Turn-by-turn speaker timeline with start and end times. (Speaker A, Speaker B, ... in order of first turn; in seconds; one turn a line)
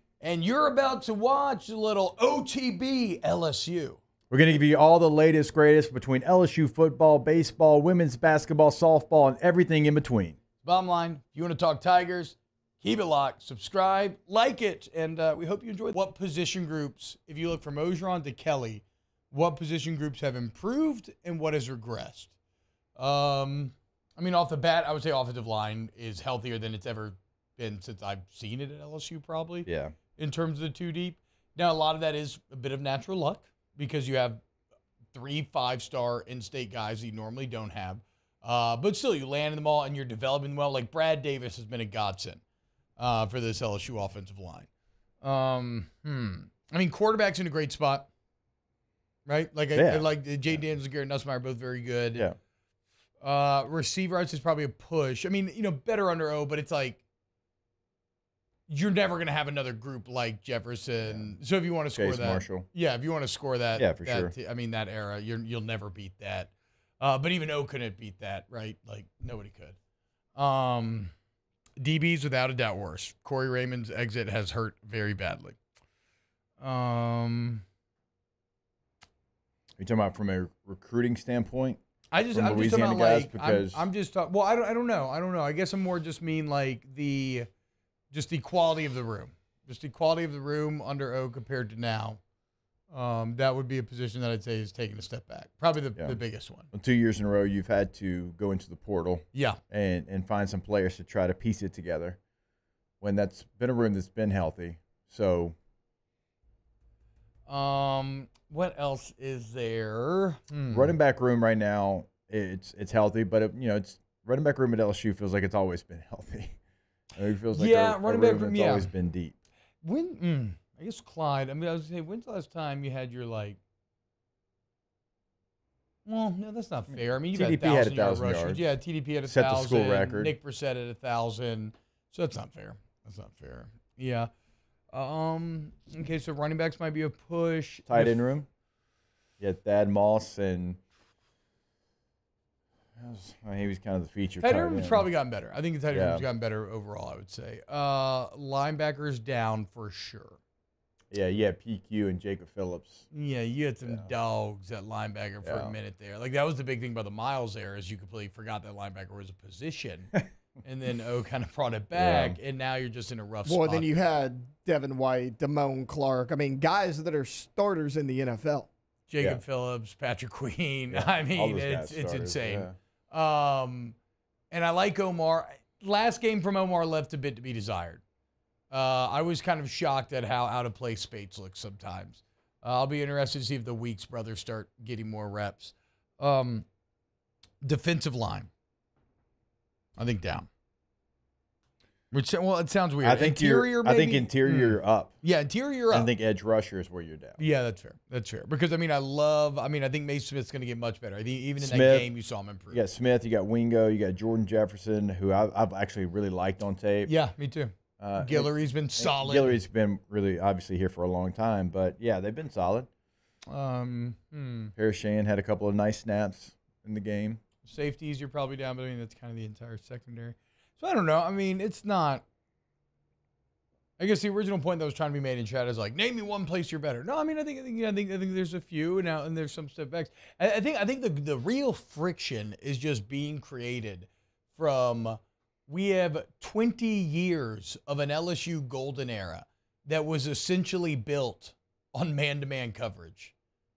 Speaker A: 0.2-4.0
Speaker B: 4.3-10.4
Speaker A: 10.6-22.3
Speaker A: 22.9-34.4
Speaker B: 29.7-29.9
Speaker A: 35.1-42.4
Speaker A: 43.0-44.7
Speaker A: 45.2-48.1
Speaker A: 49.3-52.3
Speaker B: 49.7-50.1
Speaker A: 53.2-57.0
Speaker A: 58.7-69.8
Speaker B: 61.0-61.4
Speaker B: 62.0-62.7
Speaker B: 63.8-64.3
Speaker A: 70.4-71.1
Speaker A: 71.8-75.6
Speaker A: 76.6-77.6
Speaker B: 79.8-83.8
Speaker A: 82.1-87.5
Speaker A: 88.1-92.2
Speaker A: 92.9-96.7
Speaker B: 96.7-102.2
Speaker A: 99.3-99.6
Speaker B: 103.0-105.5
Speaker A: 107.5-111.0
Speaker B: 110.7-116.5
Speaker B: 117.2-119.3
Speaker A: 117.5-118.9
Speaker A: 119.8-123.6
Speaker A: 126.1-134.3
Speaker B: 127.3-128.7
Speaker B: 129.2-130.3
Speaker A: 134.9-138.2
Speaker B: 137.9-138.5
Speaker B: 139.4-140.8
Speaker B: 143.0-145.1
Speaker A: 144.4-150.4
Speaker B: 145.9-146.2
Speaker B: 151.1-153.1
Speaker A: 153.1-163.9
Speaker B: 155.4-155.8
Speaker B: 161.9-162.4
Speaker C: 163.5-168.7
Speaker A: 169.1-174.0
Speaker B: 170.9-172.8
Speaker A: 174.5-178.0
Speaker A: 178.7-186.7
Speaker A: 187.6-188.5
Speaker A: 190.0-190.5
Speaker A: 192.1-196.1
Speaker B: 193.0-195.1
Speaker B: 195.9-197.4
Speaker A: 197.4-202.8
Speaker B: 201.6-202.1
Speaker B: 202.7-207.1
Speaker A: 207.1-209.6
Speaker B: 208.0-212.9
Speaker A: 213.5-214.7
Speaker B: 214.8-217.4
Speaker A: 217.6-222.2
Speaker A: 224.0-243.3